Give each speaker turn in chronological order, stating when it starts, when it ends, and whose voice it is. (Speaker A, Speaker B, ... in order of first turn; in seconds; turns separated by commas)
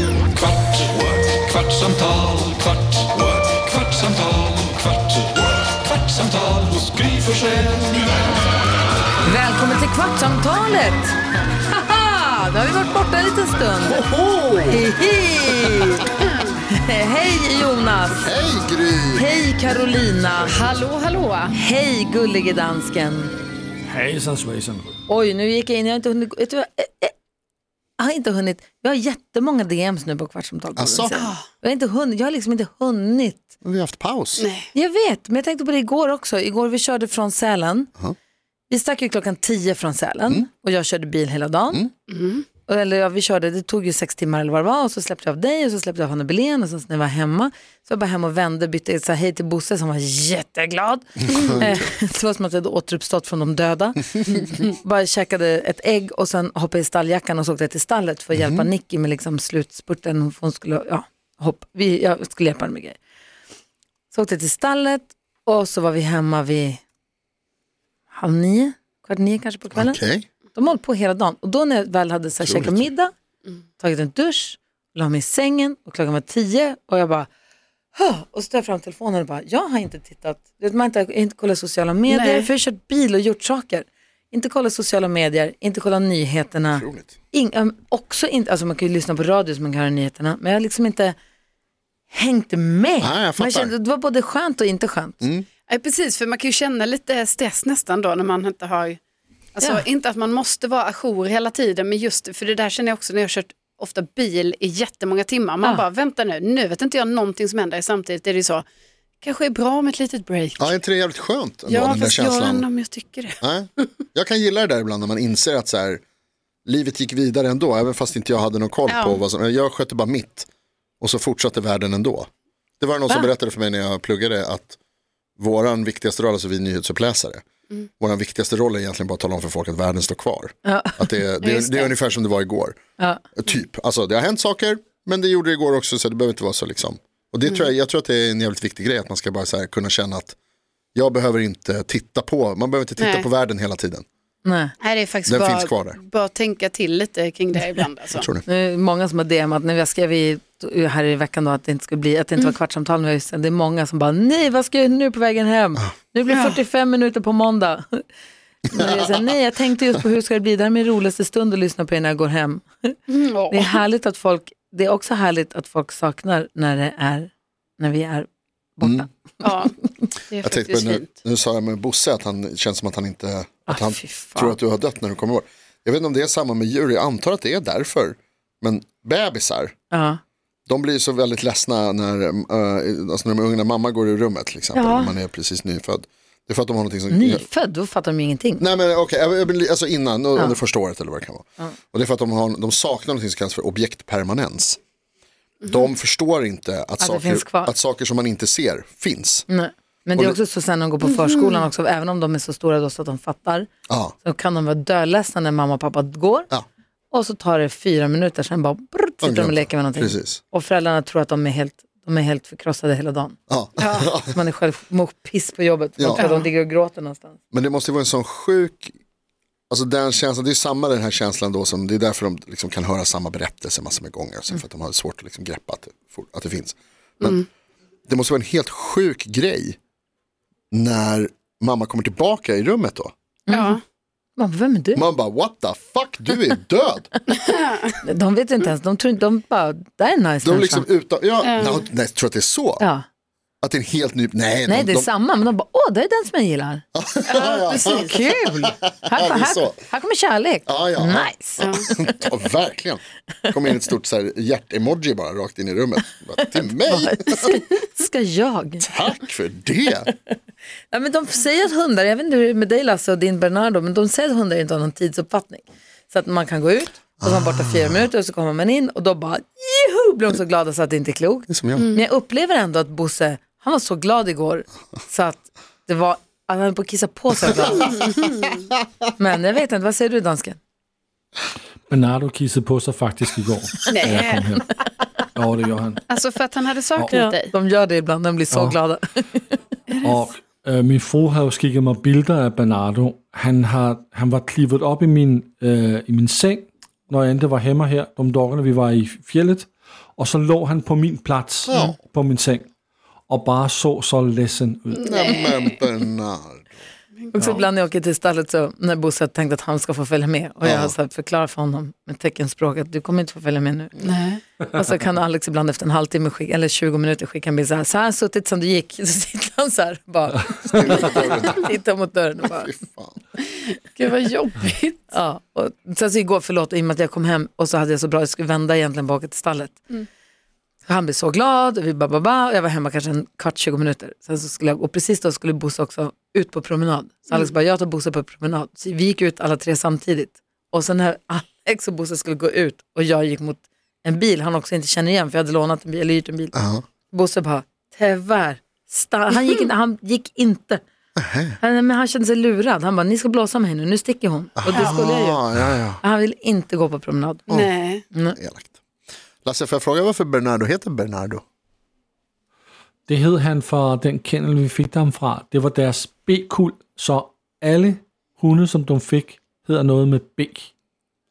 Speaker A: 0.9-1.2, Speaker A: 1.8-2.3, Speaker A: 3.1-4.3, Speaker B: 6.5-7.7, Speaker C: 9.2-14.1, Speaker D: 13.8-14.9, Speaker C: 14.7-16.1, Speaker C: 16.8-18.3, Speaker D: 18.2-19.3, Speaker C: 19.1-20.6, Speaker E: 20.4-21.5, Speaker C: 21.5-23.3, Speaker B: 23.9-25.0, Speaker C: 25.1-27.1, Speaker C: 28.0-33.5, Speaker D: 30.8-31.2, Speaker E: 31.1-31.4, Speaker D: 33.6-34.5, Speaker E: 34.4-34.7, Speaker C: 34.7-37.9, Speaker C: 38.7-41.9, Speaker E: 42.1-42.5, Speaker C: 42.7-63.0, Speaker D: 51.2-51.7, Speaker E: 51.3-51.6, Speaker D: 58.4-58.7, Speaker C: 64.1-66.8, Speaker C: 68.1-70.0, Speaker D: 69.7-70.2, Speaker C: 70.5-73.1, Speaker D: 72.4-72.9, Speaker C: 73.8-77.3, Speaker C: 78.0-91.2, Speaker E: 82.1-82.5, Speaker D: 86.7-87.1, Speaker C: 92.1-95.2, Speaker D: 93.0-93.7, Speaker D: 95.2-95.5, Speaker E: 95.7-99.0, Speaker E: 99.5-108.6, Speaker E: 109.2-110.7, Speaker D: 110.6-112.7, Speaker E: 111.7-113.3, Speaker D: 113.4-116.0, Speaker D: 116.7-120.5, Speaker E: 118.9-119.2, Speaker D: 121.0-122.3, Speaker D: 122.8-124.8, Speaker D: 125.4-127.4, Speaker D: 128.0-132.8, Speaker C: 130.6-131.2, Speaker E: 131.4-131.9, Speaker C: 133.0-133.2, Speaker D: 133.4-140.4, Speaker D: 140.9-144.1, Speaker E: 143.0-143.3, Speaker C: 144.4-144.7, Speaker E: 144.8-148.3, Speaker D: 145.3-146.0, Speaker D: 148.2-148.4, Speaker C: 148.5-158.0, Speaker E: 156.3-156.6, Speaker C: 158.7-163.0, Speaker E: 163.1-163.8, Speaker C: 163.5-169.8, Speaker D: 168.8-169.1, Speaker E: 169.4-169.8, Speaker E: 170.3-171.1, Speaker D: 170.4-179.7, Speaker C: 173.7-174.6, Speaker C: 179.9-180.2, Speaker D: 180.7-187.5, Speaker C: 184.7-185.1, Speaker C: 187.1-188.6, Speaker D: 188.6-194.8, Speaker D: 195.7-199.4, Speaker C: 197.0-197.7, Speaker C: 199.5-203.7, Speaker E: 201.1-201.6, Speaker D: 203.9-204.1, Speaker C: 204.2-206.5, Speaker C: 207.1-213.4, Speaker D: 209.2-210.4, Speaker D: 213.5-214.4, Speaker E: 213.8-214.1, Speaker C: 214.2-217.4, Speaker D: 216.0-216.3, Speaker E: 216.1-216.5, Speaker D: 217.5-218.9, Speaker D: 219.7-227.4, Speaker D: 228.1-229.8, Speaker D: 230.7-233.1, Speaker C: 233.5-233.8, Speaker E: 233.5-233.8, Speaker C: 234.4-235.0, Speaker D: 234.9-237.1, Speaker E: 237.3-237.9, Speaker C: 238.0-240.9, Speaker D: 240.4-242.8, Speaker E: 241.4-241.8, Speaker C: 242.8-243.1, Speaker D: 243.6-245.1, Speaker C: 244.7-246.8, Speaker D: 246.9-249.8, Speaker E: 247.3-248.1, Speaker C: 247.7-251.8, Speaker D: 250.7-257.6, Speaker E: 251.6-251.9, Speaker C: 256.8-258.9, Speaker D: 258.9-260.1, Speaker C: 260.9-278.1, Speaker D: 267.2-268.1, Speaker D: 271.5-271.9, Speaker E: 271.8-272.0, Speaker E: 277.8-278.6, Speaker C: 279.2-280.6, Speaker B: 281.9-284.8, Speaker E: 283.9-284.6, Speaker B: 285.4-286.0, Speaker E: 286.1-287.5, Speaker B: 286.9-287.2, Speaker C: 287.1-289.4, Speaker B: 288.5-288.8, Speaker E: 289.9-290.2, Speaker B: 290.0-302.7, Speaker D: 301.7-302.0, Speaker B: 303.3-305.1, Speaker E: 304.9-305.8, Speaker D: 305.1-306.8, Speaker C: 307.3-313.9, Speaker D: 310.6-310.9, Speaker E: 314.0-314.4, Speaker C: 314.7-322.7, Speaker D: 320.7-321.7, Speaker D: 322.4-323.2, Speaker E: 323.4-325.0, Speaker C: 325.1-329.9, Speaker C: 330.9-346.6, Speaker D: 346.5-346.8, Speaker C: 347.1-350.8, Speaker D: 351.2-351.6, Speaker C: 351.6-355.4, Speaker D: 354.6-356.0, Speaker E: 354.7-355.0, Speaker C: 356.0-357.5, Speaker E: 357.5-358.0, Speaker D: 358.4-358.8, Speaker D: 359.4-361.4, Speaker B: 363.1-370.7